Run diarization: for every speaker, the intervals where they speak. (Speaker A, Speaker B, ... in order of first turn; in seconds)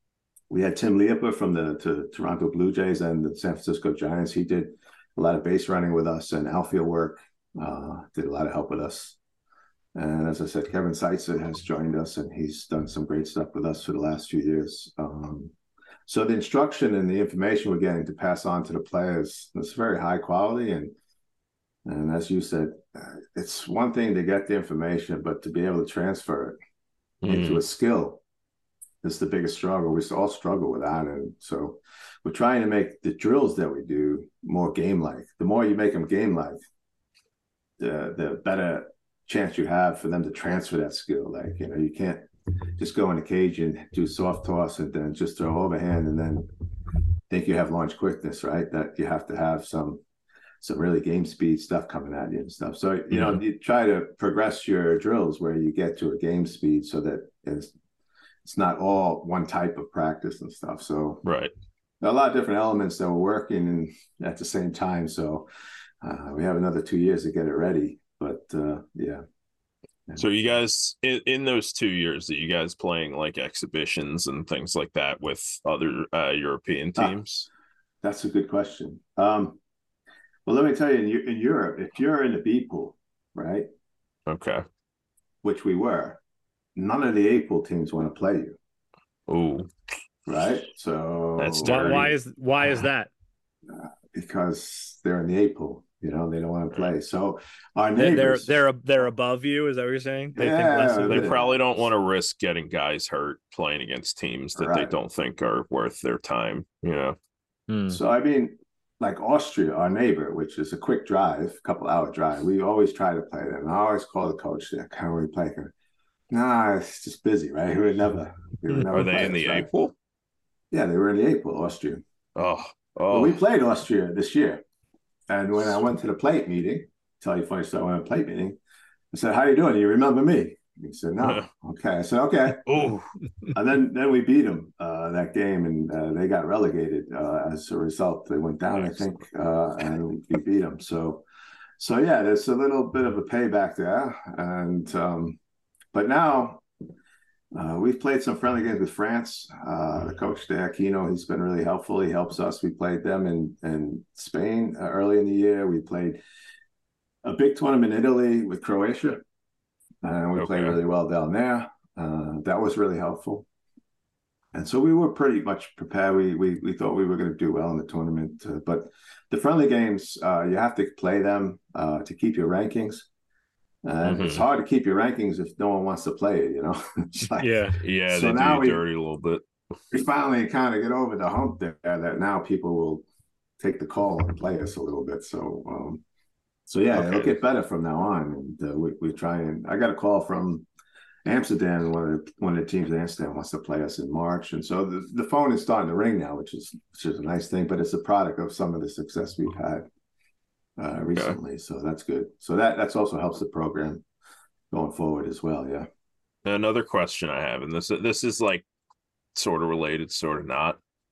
Speaker A: 0.5-9.2, 9.9-15.5, 16.1-20.9, 21.8-26.6, 27.3-28.2, 29.0-36.6, 37.8-42.3, 42.8-46.5, 47.3-50.0, 50.6-57.7, 58.4-61.2, 62.0-65.5, 66.0-69.2, 70.1-70.4, 78.0-79.6, 80.5-83.7, 85.4-86.2, 86.8-88.6, 90.2-92.1, 93.7-98.5, 100.3-101.6, 104.5-104.9, 107.9-115.7, 116.3-119.7, 120.7-122.0, 123.1-124.6, 125.3-128.6, 129.1-132.8, 133.5-141.2, 141.8-145.4, 145.9-146.6, 147.5-156.2, 157.2-159.2, 160.0-163.4, 164.5-173.1, 173.8-178.8, 179.9-183.0, 183.6-186.0, 186.7-190.7, 191.2-199.8, 200.8-204.0, 204.7-205.9
Speaker B: 27.2-27.6, 53.1-53.4, 61.2-61.5, 70.2-77.5, 84.3-84.6, 89.3-89.7, 91.4-92.1, 101.1-107.2, 118.9-119.9, 122.3-123.4, 131.2-131.5, 132.6-133.1, 160.3-160.8, 174.0-174.4, 177.8-179.4, 186.9-187.4, 206.4-208.7, 209.3-210.8
Speaker C: 91.6-93.1, 98.0-101.3, 107.7-108.0, 177.4-177.8